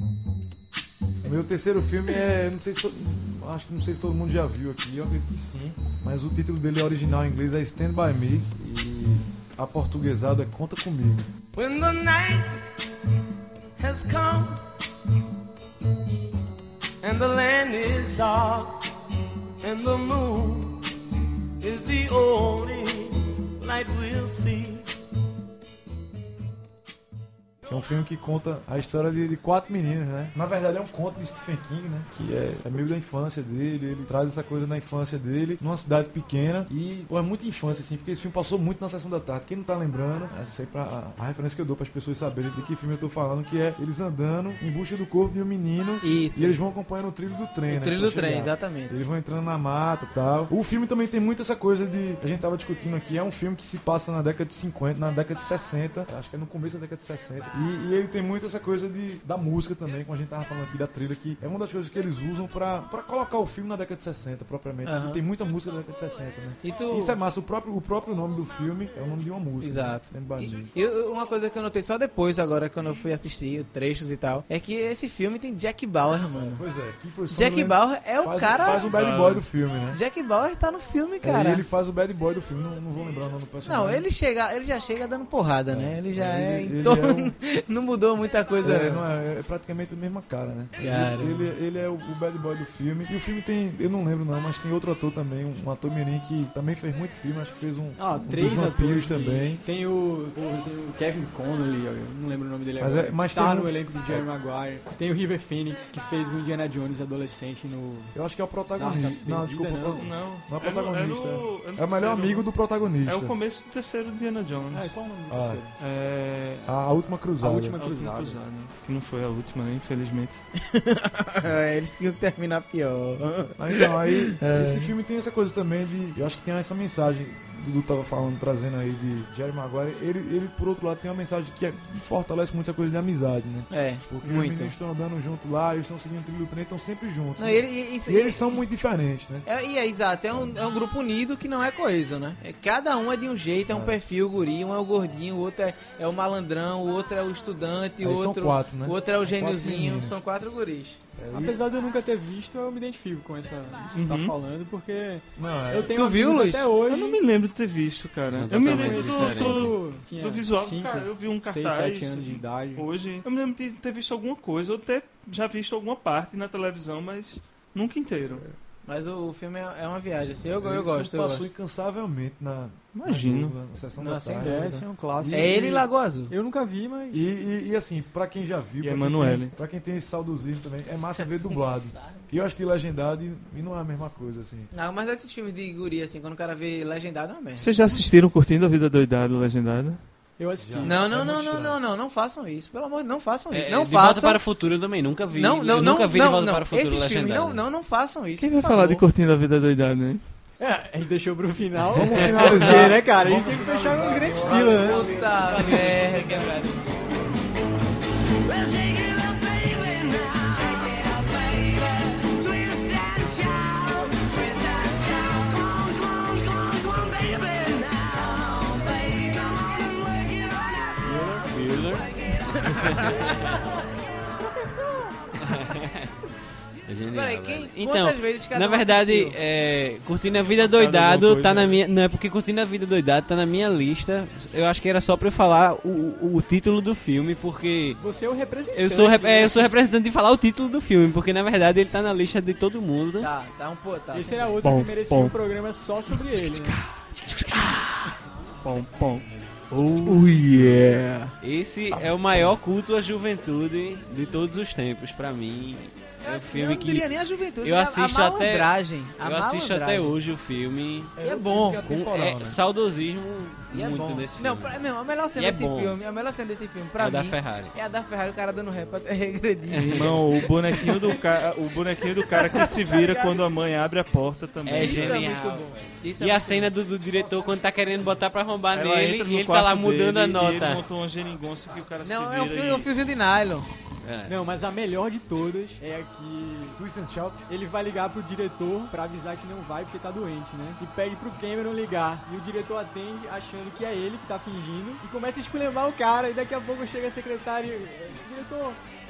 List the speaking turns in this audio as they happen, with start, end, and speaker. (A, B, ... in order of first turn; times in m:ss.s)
0:01.2-0:11.3 A
0:11.5-0:12.6 B
0:13.8-0:14.6 B
0:17.0-0:18.8 B
0:19.6-0:20.8 B
0:21.6-0:24.9 B
0:27.7-1:10.7 A
0:46.0-0:46.6 C
0:47.7-0:48.9 C
1:04.8-1:05.2 C
1:06.6-1:07.2 C
1:09.6-1:16.6 C
1:16.3-1:20.0 A
1:17.3-1:18.9 C
1:18.7-1:19.4 D
1:19.9-1:21.6 C
1:21.2-1:24.1 A
1:23.6-1:29.1 C
1:25.7-1:27.3 A
1:28.6-1:39.6 A
1:30.8-1:31.5 C
1:38.0-1:48.1 E
1:42.8-1:44.3 A
1:48.1-1:53.4 A
1:48.8-1:50.1 E
1:50.0-1:52.5 D
1:53.0-1:55.0 D
1:54.7-1:55.8 E
1:55.3-1:55.7 A
1:55.8-1:56.7 D
1:56.6-1:57.8 A
1:57.4-1:58.4 E
1:57.8-2:00.4 D
2:00.7-2:04.9 C
2:03.6-2:19.5 A
2:13.7-2:14.8 C
2:17.4-2:18.6 C
2:19.5-2:31.0 C
2:23.7-2:24.0 A
2:28.0-2:30.2 A
2:31.2-2:31.6 A
2:31.3-2:37.2 E
2:33.9-2:34.4 D
2:35.4-2:36.0 A
2:35.9-2:36.7 C
2:36.9-2:48.4 D
2:38.3-2:39.8 F
2:38.5-2:42.9 E
2:48.9-2:51.5 C
2:50.6-2:55.8 A
2:53.0-2:53.6 D
2:54.0-2:56.3 C
2:54.4-2:57.3 E
2:57.1-3:04.7 A
2:58.8-2:59.6 D
3:01.1-3:02.3 C
3:04.7-3:08.0 C
3:07.6-3:10.0 D
3:10.4-3:11.1 E
3:10.6-3:11.8 A
3:10.8-3:14.4 C
3:13.5-3:17.6 F
3:15.4-3:19.0 C
3:18.4-3:20.2 D
3:20.6-3:25.0 E
3:21.9-3:25.1 A
3:22.2-3:23.0 F
3:24.2-3:26.8 F
3:24.8-3:26.5 C
3:28.5-3:41.1 B
3:41.0-3:41.5 E
3:41.5-3:43.6 F
3:42.7-3:45.6 C
3:45.4-3:46.1 F
3:46.9-3:58.0 F
3:47.1-3:49.4 C
3:50.6-3:51.8 D
3:58.0-3:59.8 E
3:58.7-4:03.3 F
4:03.2-4:04.6 C
4:04.1-4:06.8 E
4:04.6-4:05.4 D
4:06.4-4:06.8 D
4:07.0-4:07.7 F
4:08.6-4:10.2 D
4:10.1-4:11.3 C
4:11.4-4:17.1 F
4:16.2-4:20.2 C
4:17.6-4:21.1 F
4:21.2-4:22.6 A
4:21.2-4:21.8 C
4:21.9-4:24.8 F
4:23.7-4:30.1 C
4:25.4-4:26.0 F
4:27.0-4:27.8 F
4:29.7-4:30.2 F
4:29.9-4:35.2 D
4:32.3-4:33.4 C
4:34.6-4:40.8 F
4:34.8-4:36.8 C
4:38.7-4:42.9 D
4:42.0-4:43.7 C
4:44.0-4:44.4 F
4:44.3-4:46.8 E
4:46.8-4:47.4 A
4:47.5-4:58.8 E